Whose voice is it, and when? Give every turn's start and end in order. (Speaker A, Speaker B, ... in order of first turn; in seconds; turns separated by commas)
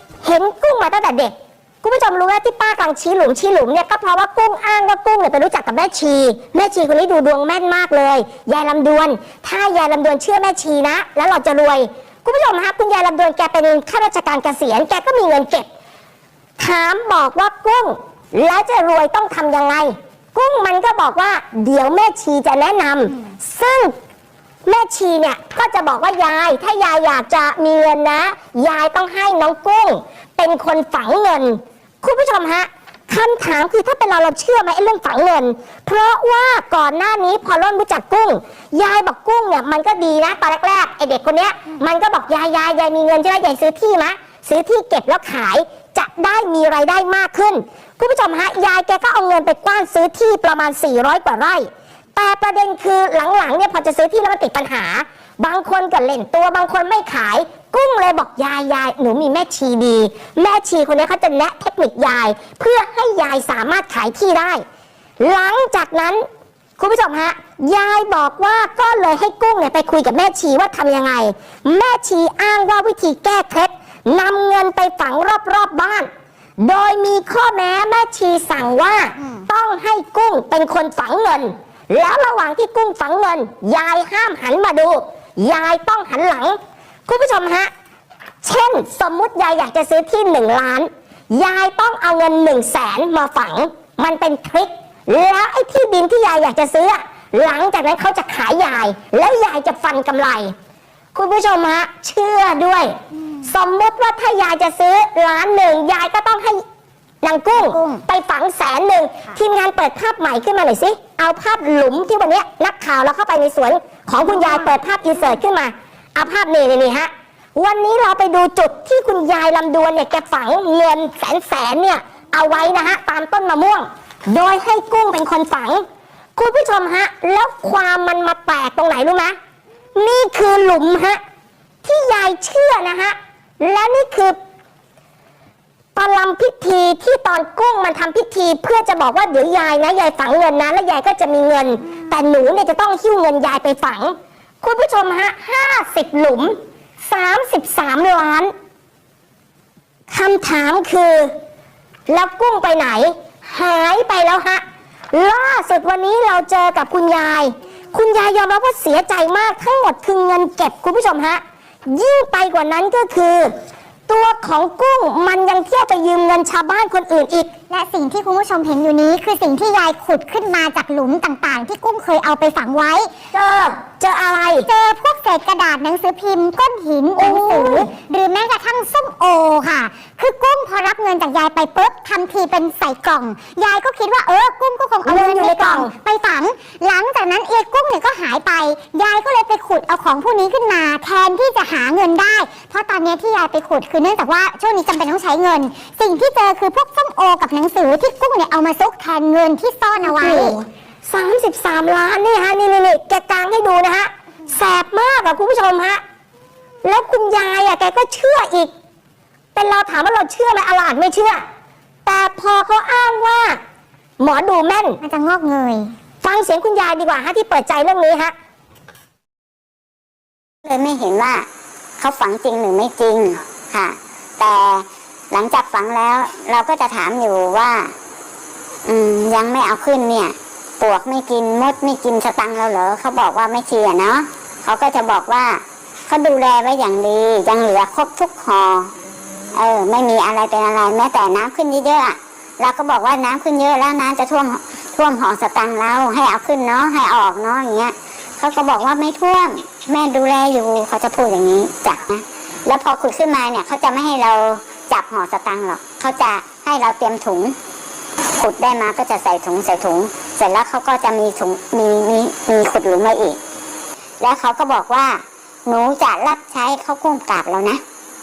Speaker A: 0.2-15.7, Speaker A: 16.6-23.9, Speaker A: 24.6-64.6, Speaker A: 65.2-66.2, Speaker A: 66.8-87.7, Speaker B: 79.2-79.4, Speaker A: 88.4-100.5, Speaker A: 101.1-102.9, Speaker A: 103.4-106.6, Speaker A: 107.2-125.8, Speaker B: 107.6-108.0, Speaker A: 126.3-129.3, Speaker A: 129.9-131.2, Speaker A: 131.8-134.4, Speaker A: 135.9-148.5, Speaker A: 150.1-151.3, Speaker A: 152.1-163.5, Speaker A: 164.1-167.5, Speaker B: 167.7-173.1, Speaker A: 173.3-174.7, Speaker B: 174.6-200.5, Speaker A: 177.2-177.9, Speaker A: 185.0-185.9, Speaker A: 200.0-206.0, Speaker A: 206.8-208.7, Speaker A: 209.5-211.4, Speaker A: 212.1-213.6, Speaker A: 214.2-215.0, Speaker B: 215.0-215.9, Speaker A: 216.2-218.3, Speaker C: 220.6-221.5, Speaker C: 222.0-227.9, Speaker C: 228.8-238.9, Speaker C: 239.5-257.6, Speaker C: 258.3-263.4, Speaker C: 264.2-267.8